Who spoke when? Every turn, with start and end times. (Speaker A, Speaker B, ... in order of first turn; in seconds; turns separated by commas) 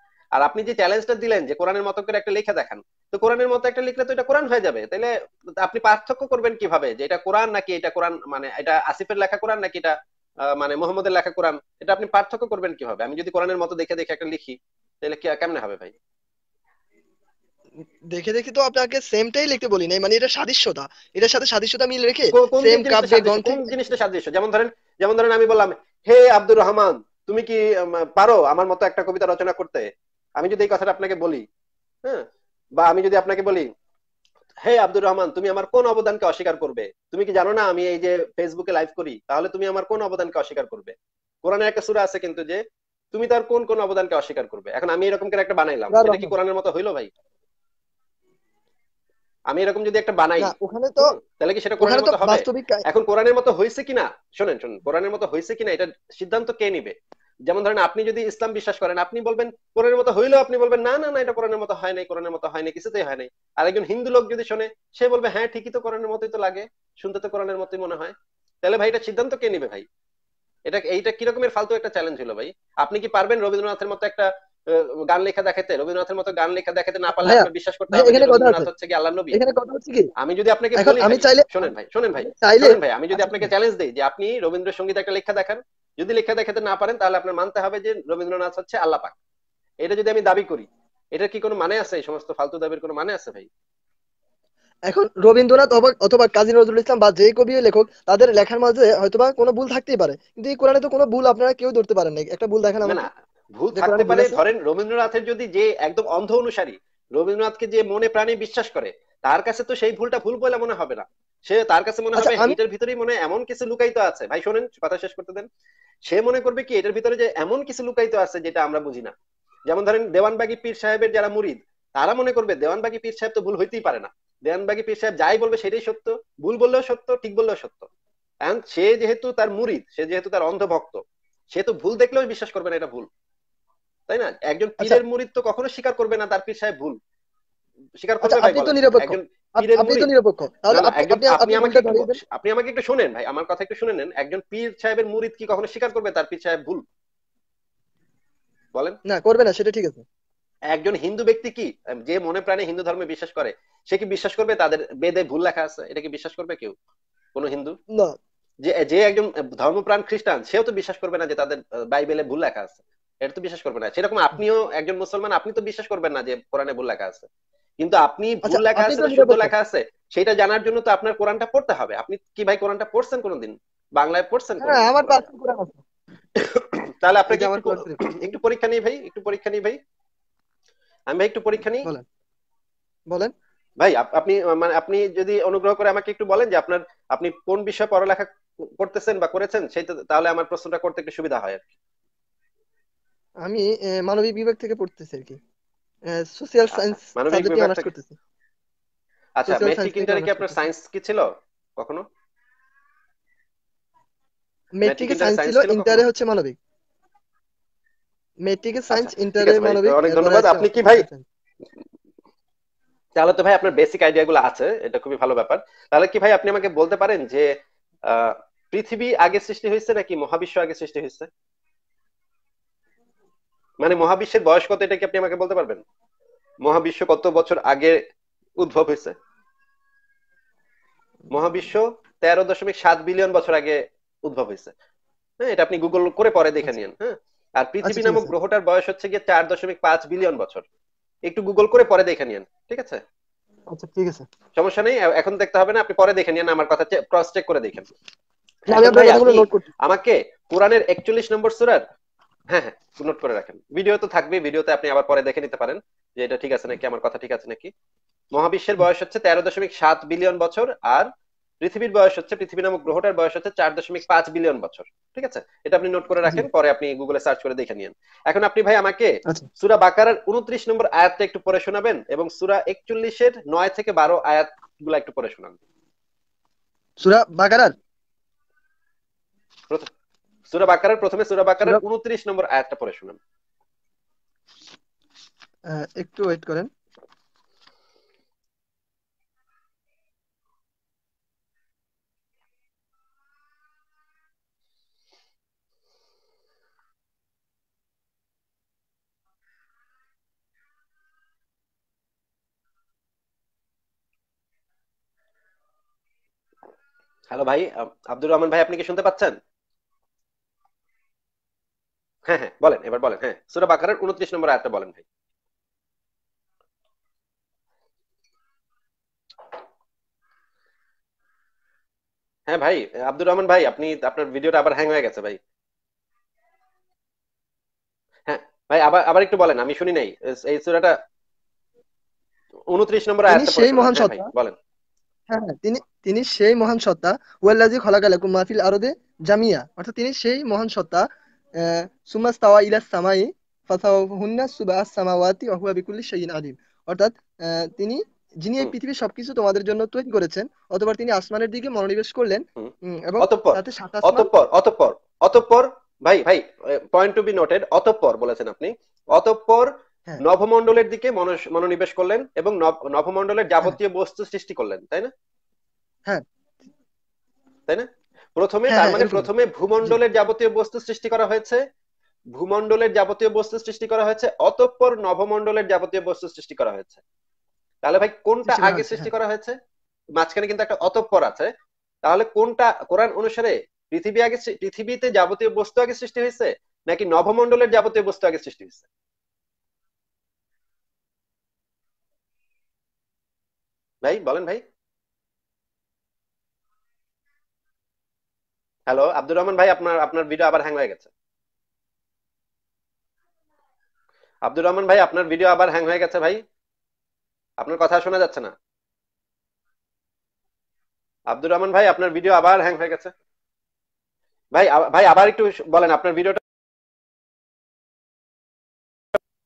Speaker A: 0.4-15.9, Speaker B: 18.1-23.7, Speaker A: 22.3-31.4, Speaker A: 32.8-33.7, Speaker A: 34.6-42.6, Speaker A: 43.1-47.1, Speaker B: 45.9-46.4, Speaker A: 49.5-57.0, Speaker B: 50.4-51.1, Speaker B: 51.8-52.8, Speaker A: 57.5-69.9, Speaker A: 70.7-79.4, Speaker B: 77.2-78.7, Speaker B: 79.3-80.1, Speaker A: 80.2-89.2, Speaker B: 80.8-81.5, Speaker B: 82.2-83.5, Speaker A: 89.8-93.5, Speaker B: 94.9-103.1, Speaker A: 102.8-115.5, Speaker B: 103.7-104.4, Speaker B: 112.2-112.6, Speaker A: 116.1-119.1, Speaker A: 119.7-127.9, Speaker A: 128.4-131.0, Speaker A: 131.5-133.1, Speaker A: 134.1-137.0, Speaker A: 138.0-140.1, Speaker B: 138.2-142.2, Speaker A: 140.7-146.8, Speaker B: 149.1-150.0, Speaker A: 150.7-156.7, Speaker A: 157.3-157.8, Speaker A: 158.6-167.3, Speaker A: 167.8-175.2, Speaker B: 168.4-169.5, Speaker B: 174.6-175.8, Speaker A: 176.4-179.8, Speaker B: 177.3-178.3, Speaker A: 181.1-181.9, Speaker A: 183.8-191.7, Speaker B: 193.4-195.4, Speaker B: 196.1-198.2, Speaker A: 196.7-197.9, Speaker A: 199.4-202.0, Speaker B: 199.5-200.7, Speaker B: 204.8-206.6, Speaker A: 204.8-206.1, Speaker B: 208.5-211.3, Speaker A: 208.9-211.1, Speaker A: 213.2-217.5, Speaker A: 218.1-221.3, Speaker A: 223.8-225.8, Speaker A: 226.6-228.0, Speaker A: 228.6-229.2, Speaker A: 231.3-234.7, Speaker A: 235.4-240.7, Speaker B: 237.8-238.3, Speaker A: 241.3-243.0, Speaker B: 243.7-244.3, Speaker A: 244.6-247.9, Speaker A: 248.7-251.8, Speaker B: 248.7-249.7, Speaker A: 252.5-257.7, Speaker A: 258.3-261.1, Speaker A: 261.6-275.6, Speaker B: 277.0-277.8, Speaker A: 280.5-283.2, Speaker B: 285.7-286.7, Speaker A: 307.3-309.4, Speaker A: 312.3-315.0, Speaker A: 322.5-325.4, Speaker A: 328.3-330.9, Speaker A: 332.7-334.6, Speaker B: 333.3-334.3, Speaker B: 335.3-341.1, Speaker B: 341.6-354.3, Speaker A: 352.6-365.1, Speaker A: 367.7-371.6, Speaker B: 368.7-369.3, Speaker A: 372.3-377.0, Speaker A: 377.8-379.6, Speaker B: 378.5-379.1, Speaker A: 380.2-381.5, Speaker A: 382.0-388.9, Speaker A: 394.0-394.6, Speaker A: 398.9-401.1, Speaker A: 404.4-406.4, Speaker A: 407.6-408.5, Speaker A: 411.3-413.1, Speaker A: 414.5-416.4